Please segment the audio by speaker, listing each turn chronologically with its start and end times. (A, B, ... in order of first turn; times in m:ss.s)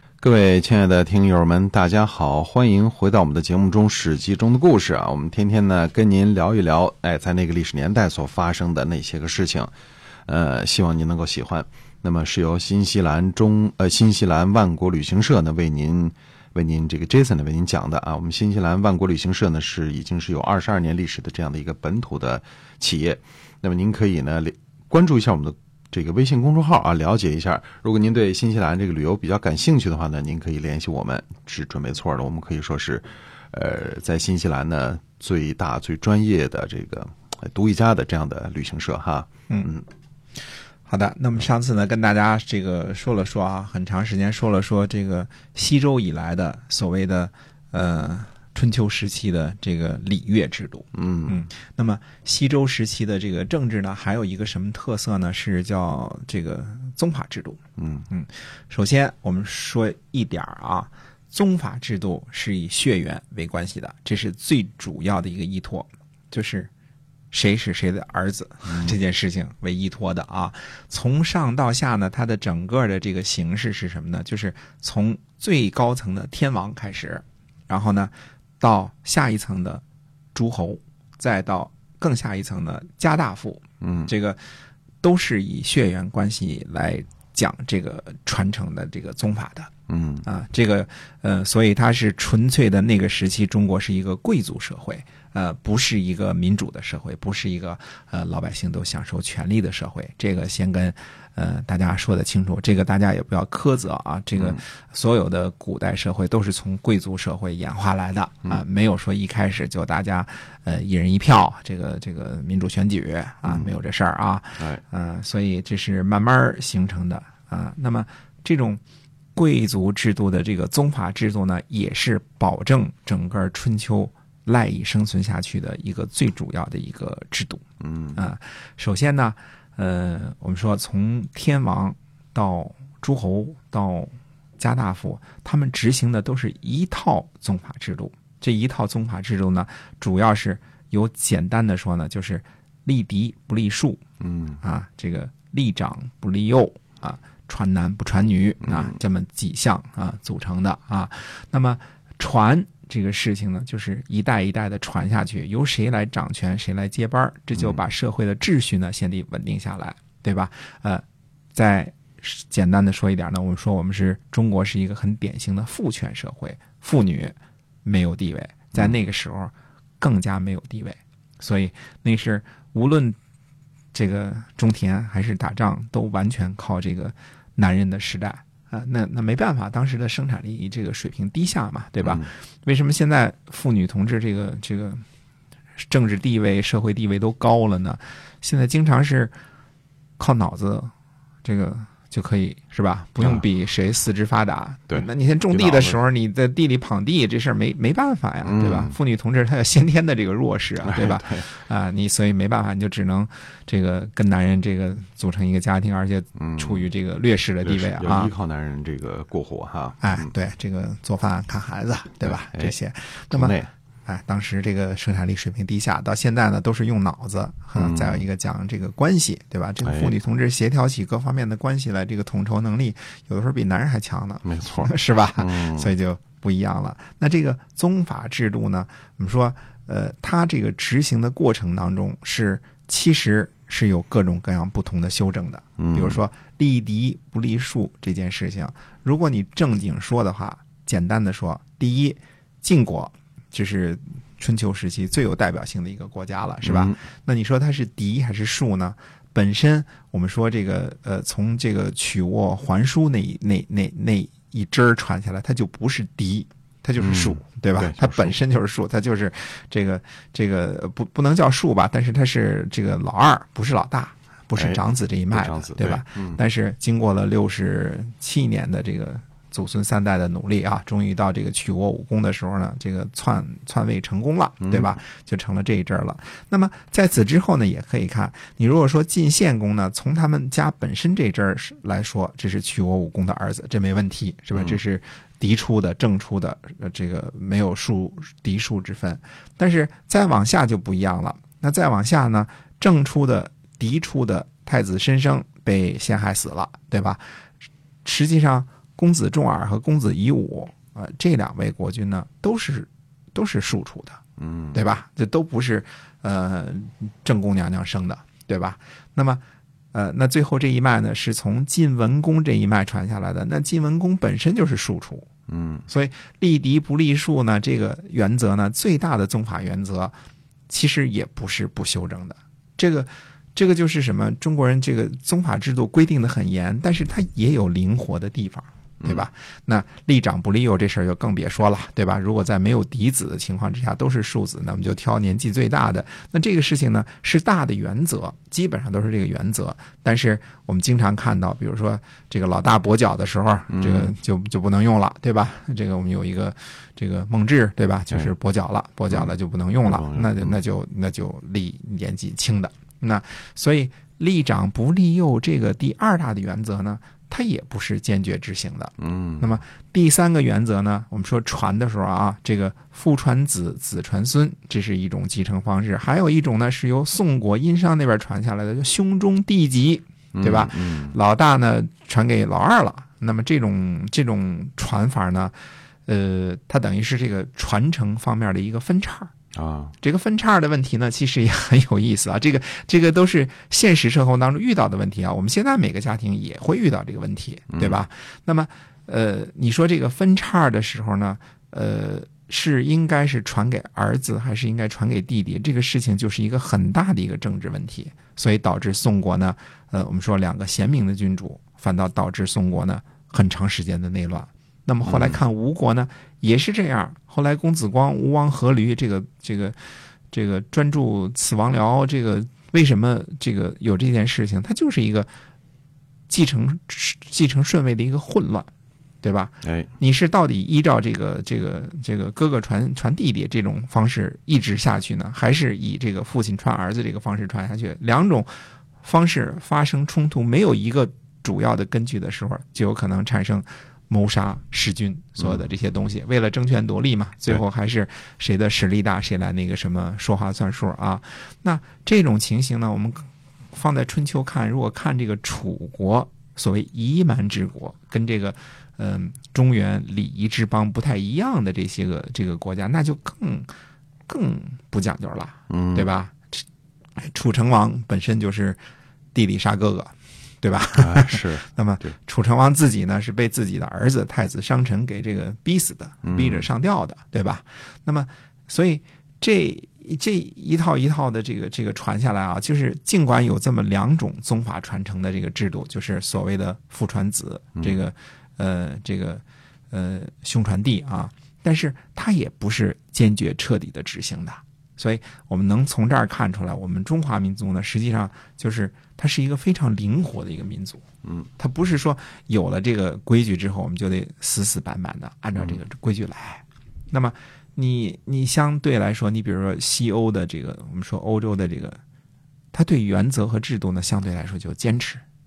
0:00.2-0:09.7 A
0:10.3-0:39.9 A
0:40.9-1:06.7 B
0:51.0-0:51.4 A
0:57.8-0:58.1 A
1:07.3-1:19.8 B
1:08.7-1:09.0 A
1:20.4-1:24.4 B
1:23.8-1:24.1 A
1:25.0-1:29.7 B
1:29.9-1:30.3 A
1:30.2-1:58.8 B
1:44.4-1:44.6 A
1:59.4-2:07.6 B
2:07.8-2:08.2 A
2:08.2-2:24.0 B
2:24.2-2:24.6 A
2:24.6-2:41.0 B
2:28.6-2:29.0 A
2:41.6-2:53.2 B
2:53.9-3:05.0 B
3:02.0-3:02.3 A
3:05.9-3:09.3 B
3:10.2-3:10.9 B
3:11.4-3:28.3 B
3:14.9-3:16.0 A
3:18.4-3:19.0 A
3:20.8-3:21.5 A
3:26.4-3:26.8 A
3:27.6-3:30.3 A
3:30.0-3:33.6 B
3:32.2-3:32.8 A
3:33.3-3:33.7 A
3:34.1-4:57.2 B
3:37.8-3:38.2 A
3:39.8-3:40.1 A
3:44.4-3:45.9 A
3:55.8-3:56.2 A
4:06.6-4:07.0 A
4:17.0-4:18.4 A
4:24.6-4:26.4 A
4:34.6-4:35.0 A
4:44.5-4:44.8 A
4:58.0-5:04.2 B
5:04.4-5:04.8 A
5:04.7-5:09.4 B
5:09.9-5:15.3 B
5:15.5-5:15.9 A
5:15.9-5:20.1 B
5:20.7-6:15.5 B
5:29.0-5:29.3 A
5:43.7-5:44.2 A
5:49.1-5:50.6 A
5:59.0-5:59.6 A
6:10.3-6:11.2 A
6:16.1-6:19.3 B
6:19.6-6:20.0 A
6:20.0-6:49.8 B
6:27.7-6:28.0 A
6:45.0-6:45.4 A
6:50.3-6:55.3 B
6:56.3-6:58.7 B
6:59.2-7:08.5 B
6:59.6-6:59.9 A
7:09.0-7:33.7 B
7:15.4-7:15.7 A
7:34.3-7:36.6 B
7:35.7-7:36.1 A
7:37.2-7:38.8 B
7:39.3-8:11.0 B
7:41.0-7:42.1 A
7:46.2-7:46.7 A
8:11.6-8:22.0 B
8:15.6-8:15.8 A
8:22.7-8:25.2 B